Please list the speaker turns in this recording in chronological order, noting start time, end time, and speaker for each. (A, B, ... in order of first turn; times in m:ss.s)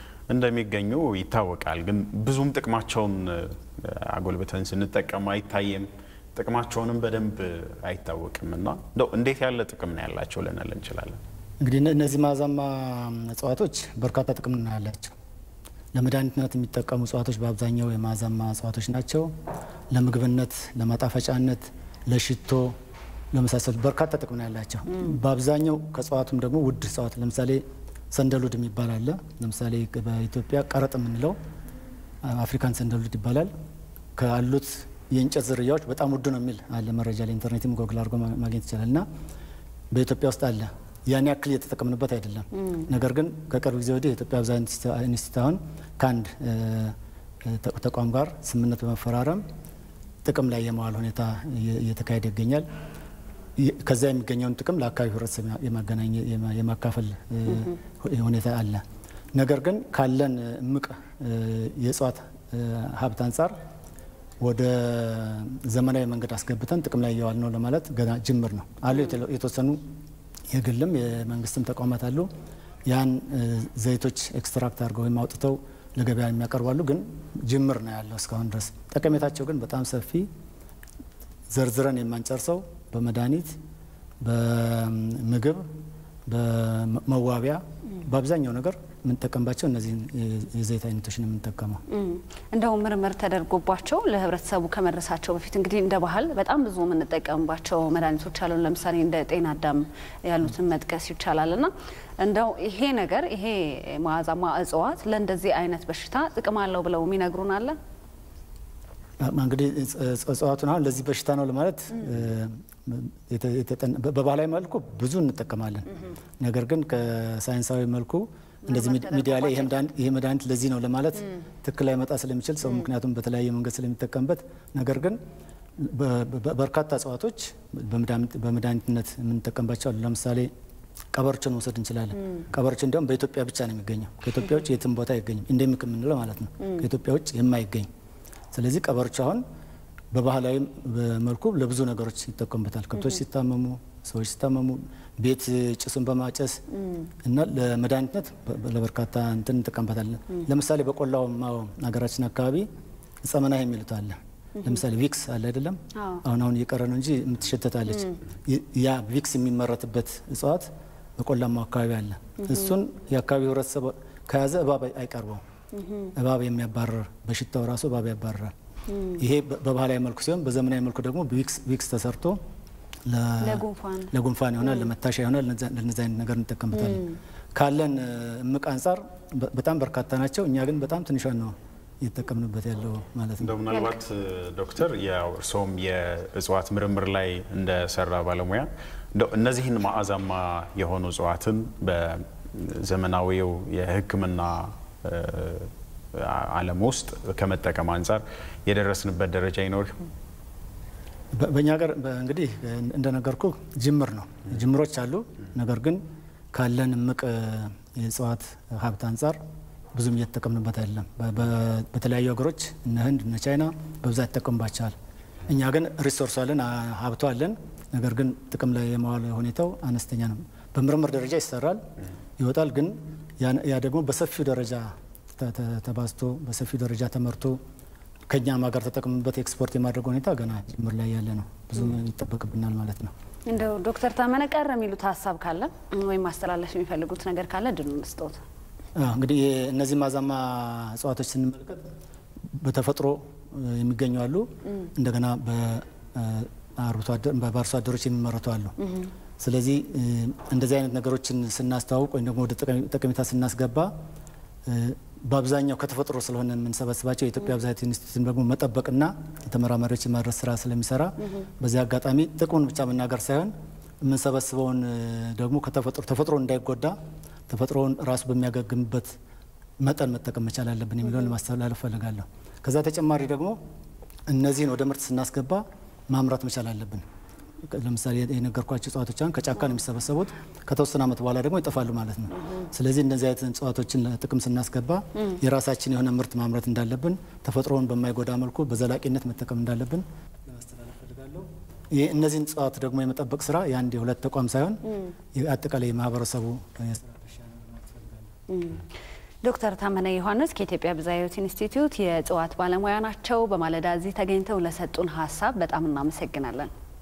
0:00.3-0:11.2 A
0:11.6-0:15.1 B
0:15.9-0:19.3 B
0:19.9-0:22.7 B
0:23.3-0:31.4 B
0:24.9-0:25.2 C
0:32.2-0:33.5 B
0:34.2-0:39.0 B
0:39.9-0:49.4 B
0:42.6-0:42.8 C
0:50.2-0:52.6 B
0:53.6-0:58.8 B
0:59.3-1:03.5 B
1:04.4-1:09.8 B
1:10.5-1:12.3 B
1:12.9-1:20.3 B
1:21.5-1:23.5 B
1:24.2-1:25.6 B
1:26.3-1:31.8 B
1:31.9-1:47.8 C
1:49.2-1:55.9 B
1:56.4-2:05.2 B
1:58.6-1:59.8 C
2:05.8-2:10.5 B
2:11.1-2:17.9 B
2:18.5-2:19.4 B
2:20.1-2:26.6 B
2:23.0-2:23.2 C
2:26.7-2:27.1 C
2:27.2-2:32.7 B
2:33.2-2:45.4 B
2:35.9-2:36.2 C
2:42.4-2:42.8 C
2:45.7-2:46.1 C
2:46.2-2:48.5 B
2:48.9-2:49.2 C
2:49.2-2:52.4 B
2:53.1-2:57.0 B
2:53.4-2:54.9 C
2:56.7-2:57.2 C
2:57.6-3:03.6 B
3:03.4-3:20.1 A
3:03.7-3:03.9 C
3:21.3-3:26.0 B
3:26.5-3:29.4 B
3:29.9-3:34.9 B
3:35.5-3:41.8 B
3:42.4-3:47.6 B
3:48.3-3:53.1 B
3:53.4-3:58.4 C
3:59.0-4:01.9 B
4:02.5-4:08.7 B
4:08.8-4:09.1 C
4:09.4-4:13.9 B
4:14.7-4:23.5 B
4:21.2-4:21.5 C
4:24.0-4:26.9 B
4:27.5-4:29.1 B
4:29.8-4:33.6 B
4:34.3-4:37.0 B
4:37.6-4:54.8 B
4:55.3-4:58.3 B
4:58.5-4:58.8 C
4:59.4-5:06.7 C